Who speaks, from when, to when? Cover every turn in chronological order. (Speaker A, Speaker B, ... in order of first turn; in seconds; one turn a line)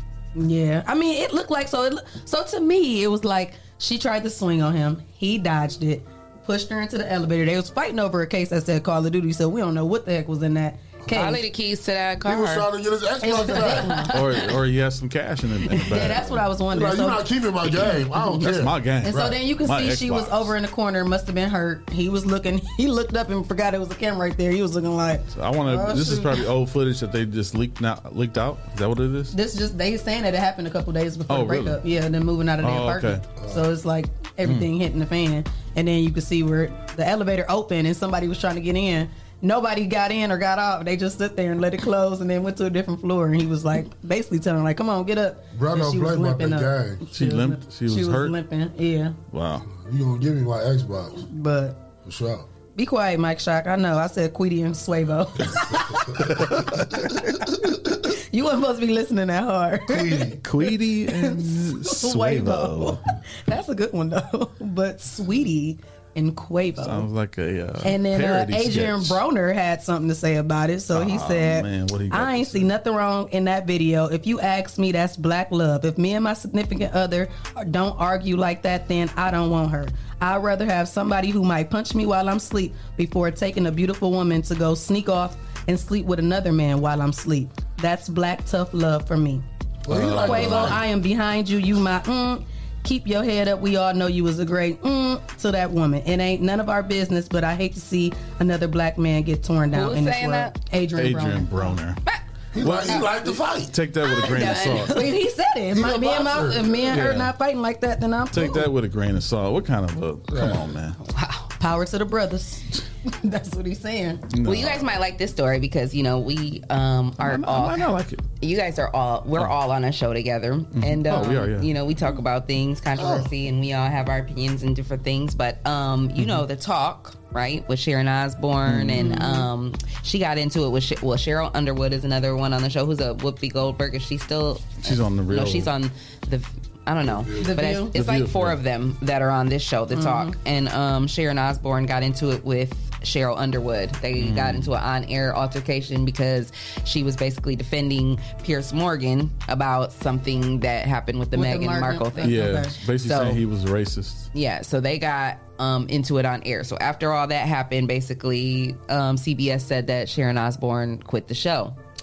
Speaker A: 0.3-11.4
Speaker B: 11.1-12.7
Speaker C: 12.2-14.0
Speaker A: 13.2-14.1
Speaker B: 13.5-14.5
Speaker D: 14.1-16.3
Speaker A: 15.9-18.4
Speaker C: 16.7-19.3
Speaker D: 18.4-20.5
Speaker A: 19.0-26.4
Speaker D: 25.3-29.3
Speaker A: 29.3-49.2
Speaker D: 31.3-31.8
Speaker D: 32.6-33.2
Speaker C: 33.4-33.7
Speaker D: 34.4-34.7
Speaker C: 45.5-47.0
Speaker D: 47.1-48.4
Speaker D: 49.3-49.6
Speaker C: 49.6-51.2
Speaker A: 51.3-51.8
Speaker C: 52.0-52.5
Speaker A: 52.8-55.8
Speaker D: 56.2-57.2
Speaker A: 58.1-67.0
Speaker C: 59.9-60.4
Speaker D: 60.4-63.0
Speaker D: 66.8-69.2
Speaker A: 67.8-101.8
Speaker D: 70.9-72.7
Speaker C: 89.8-90.8
Speaker D: 89.9-90.8
Speaker B: 99.7-100.5
Speaker D: 100.9-102.0
Speaker C: 102.5-103.7
Speaker D: 102.6-105.0
Speaker B: 104.0-105.0
Speaker A: 104.8-108.7
Speaker C: 105.7-107.0
Speaker D: 106.9-107.3
Speaker D: 108.3-111.0
Speaker C: 110.3-110.7
Speaker B: 111.0-111.5
Speaker A: 111.6-114.2
Speaker D: 114.3-114.9
Speaker B: 114.4-117.9
Speaker D: 117.2-118.2
Speaker B: 118.4-152.5
Speaker D: 120.8-121.7
Speaker C: 123.0-123.3
Speaker D: 126.2-126.4
Speaker D: 128.6-129.1
Speaker A: 128.9-129.5
Speaker D: 134.8-135.7
Speaker C: 137.1-137.5
Speaker A: 137.4-137.9
Speaker D: 137.9-138.6
Speaker A: 139.9-140.3
Speaker D: 144.2-144.7
Speaker A: 151.3-152.7
Speaker D: 152.2-154.3
Speaker B: 153.0-153.4
Speaker B: 154.3-161.8